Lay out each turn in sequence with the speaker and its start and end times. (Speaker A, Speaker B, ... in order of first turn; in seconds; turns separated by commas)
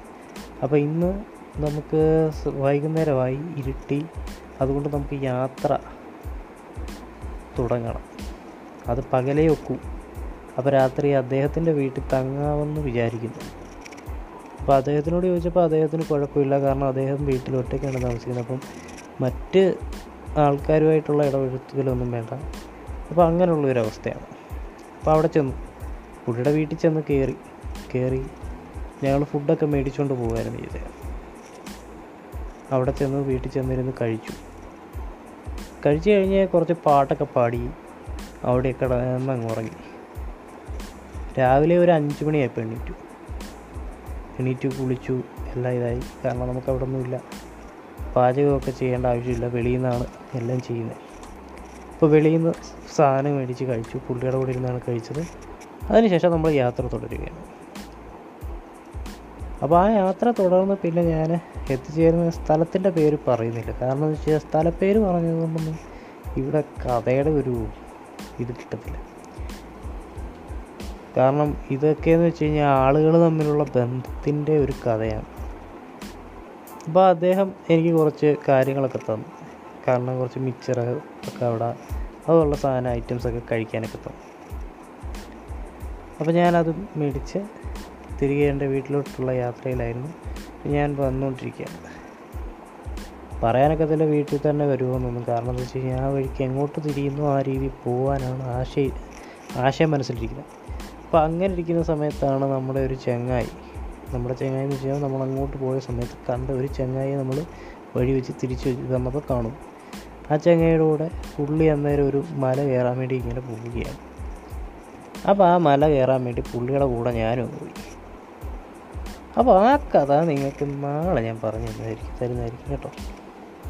Speaker A: 0.6-4.0, Speaker A: 4.6-5.8, Speaker A: 7.5-8.1, Speaker A: 8.9-9.8, Speaker A: 10.6-13.5, Speaker A: 14.6-18.6, Speaker A: 19.2-19.6, Speaker A: 20.4-22.4, Speaker A: 23.1-24.3, Speaker A: 25.0-25.6, Speaker A: 26.3-28.3, Speaker A: 29.0-30.9, Speaker A: 32.7-34.4, Speaker A: 35.8-37.7, Speaker A: 38.5-39.8, Speaker A: 41.4-43.0, Speaker A: 44.4-47.2, Speaker A: 48.1-51.0, Speaker A: 52.0-55.3, Speaker A: 55.9-57.5, Speaker A: 59.6-65.8, Speaker A: 66.4-67.6, Speaker A: 68.4-69.0, Speaker A: 71.2-75.3, Speaker A: 76.9-79.3, Speaker A: 79.8-81.7, Speaker A: 82.3-84.2, Speaker A: 86.2-87.4, Speaker A: 88.2-91.8, Speaker A: 93.4-98.9, Speaker A: 99.6-100.5, Speaker A: 101.1-103.5, Speaker A: 104.1-109.6, Speaker A: 110.3-114.0, Speaker A: 115.3-117.8, Speaker A: 119.4-123.0